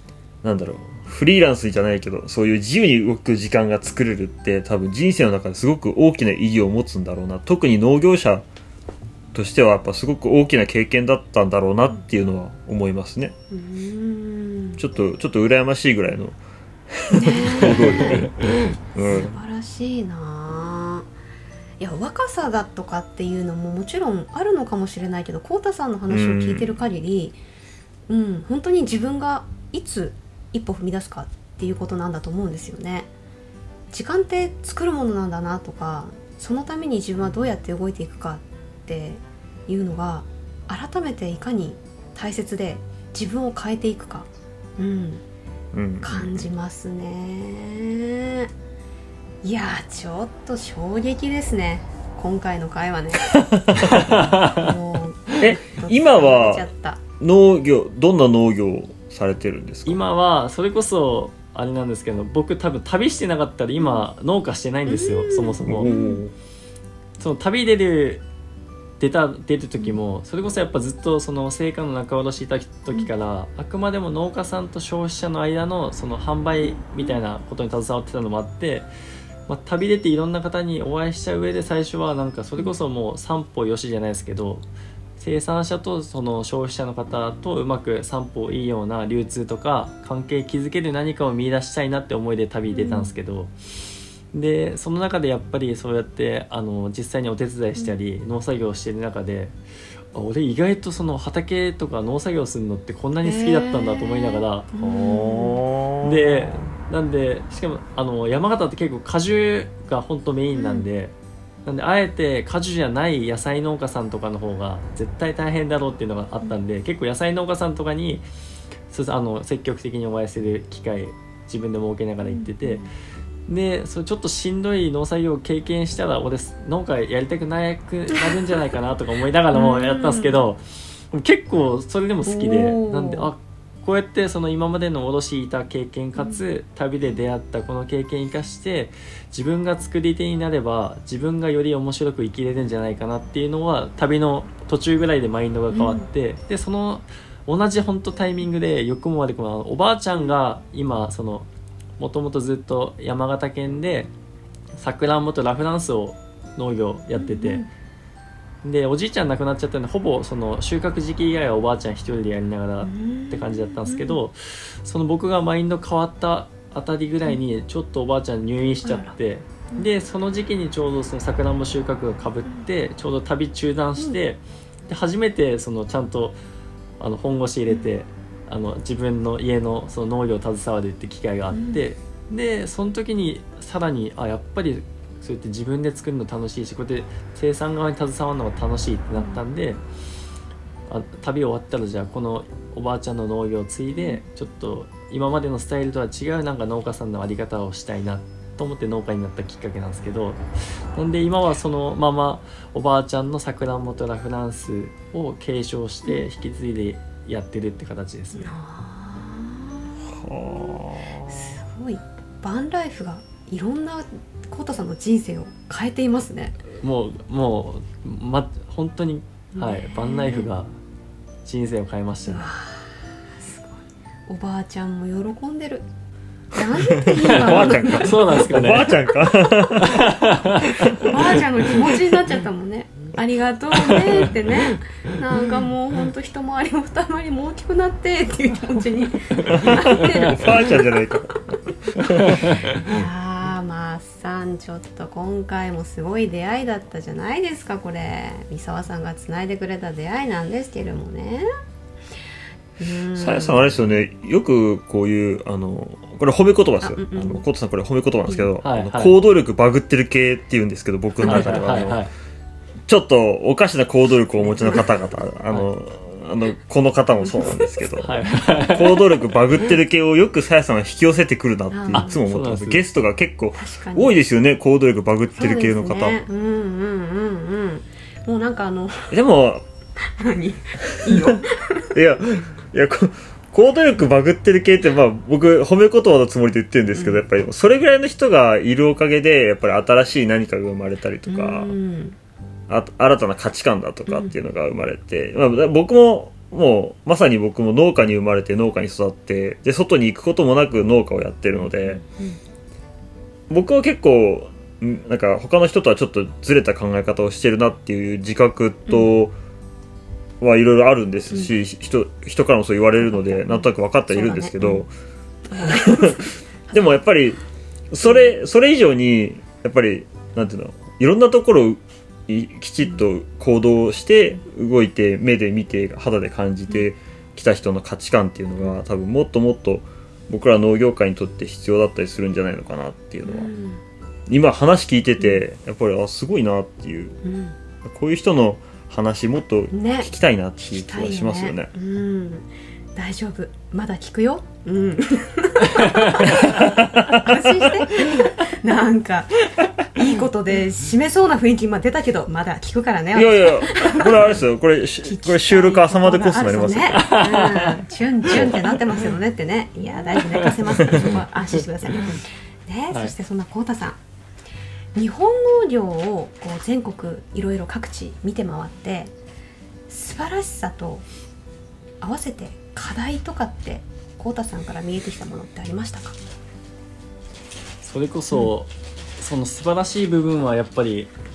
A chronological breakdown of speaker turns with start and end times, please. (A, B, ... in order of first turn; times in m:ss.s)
0:00.4-0:08.5 A
0:09.3-0:13.4 A
0:13.5-0:14.8 B
0:14.8-0:19.4 A
0:17.1-0:21.1 B
0:21.8-0:27.4 B
0:26.1-0:26.8 A
0:28.1-0:33.1 B
0:33.9-0:45.2 B
0:45.7-0:46.5 A
0:46.0-0:48.5 B
0:49.4-0:57.0 B
0:53.3-0:54.1 A
0:53.7-0:54.7 C
0:55.4-0:56.7 A
0:57.2-1:00.0 A
0:59.9-1:05.9 C
1:03.8-1:04.0 B
1:04.9-1:06.2 B
1:05.6-1:06.3 A
1:07.2-1:08.2 C
1:09.0-1:18.9 C
1:16.6-1:17.2 B
1:19.5-1:24.6 C
1:25.2-1:39.6 C
1:32.7-1:33.1 B
1:40.1-1:44.7 C
1:43.2-1:45.6 B
1:44.8-1:46.3 A
1:46.0-1:51.1 C
1:50.5-1:50.8 B
1:51.6-1:58.2 C
1:58.9-2:02.9 C
2:02.2-2:02.9 B
2:03.5-2:31.5 C
2:09.5-2:10.4 B
2:12.2-2:13.3 B
2:16.2-2:16.4 B
2:25.7-2:26.0 B
2:32.0-2:34.1 C
2:34.8-2:37.7 C
2:37.2-2:37.7 B
2:38.6-2:56.4 C
2:42.8-2:44.2 B
2:48.8-2:49.2 B
2:57.0-3:09.8 C
3:01.5-3:01.8 B
3:10.9-3:28.5 C
3:13.9-3:14.2 B
3:28.4-3:36.6 B
3:30.0-3:31.5 A
3:36.7-3:40.8 C
3:39.6-3:40.5 B
3:41.4-3:42.5 C
3:42.3-3:45.9 B
3:46.5-3:49.5 B
3:47.0-3:50.2 A
3:47.2-3:48.9 C
3:49.7-3:51.1 C
3:50.8-3:51.1 A
3:50.9-4:00.9 B
3:53.9-3:54.5 C
3:59.4-4:00.4 C
3:59.5-4:01.4 A
4:02.0-4:02.4 A
4:02.0-4:11.5 B
4:02.2-4:02.9 C
4:12.8-4:13.8 B
4:13.2-4:22.0 A
4:16.8-4:17.4 B
4:18.2-4:18.5 B
4:18.6-4:19.2 C
4:21.2-4:21.7 B
4:21.2-4:22.1 C
4:22.9-4:36.2 A
4:24.4-4:24.9 B
4:27.2-4:27.8 B
4:28.0-4:29.0 C
4:31.7-4:32.2 B
4:31.9-4:32.8 C
4:33.5-4:34.2 B
4:35.4-4:39.2 B
4:39.1-4:39.6 A
4:40.0-4:42.0 B
4:41.0-4:41.4 A
4:41.9-4:51.7 A
4:46.9-4:47.2 B
4:51.3-4:52.2 B
4:52.7-5:02.0 A
4:54.1-4:54.3 B
5:01.7-5:02.4 B
5:03.5-5:09.4 A
5:10.4-5:14.9 A
5:13.2-5:14.8 B
5:15.5-5:16.3 B
5:15.6-5:17.4 A
5:17.9-5:33.5 A
5:33.2-5:33.8 B
5:34.3-5:37.2 A
5:35.2-5:35.4 B
5:37.2-5:37.5 B
5:37.8-5:41.7 A
5:39.7-5:40.1 B
5:40.6-5:54.4 B
5:45.6-5:46.4 C
5:46.2-5:48.2 A
5:53.1-5:57.2 A
5:55.0-6:04.0 B
5:56.9-5:59.1 C
6:00.0-6:02.2 C
6:05.0-6:09.1 B
6:09.9-6:11.0 B
6:12.0-6:16.2 B
6:17.8-6:21.1 C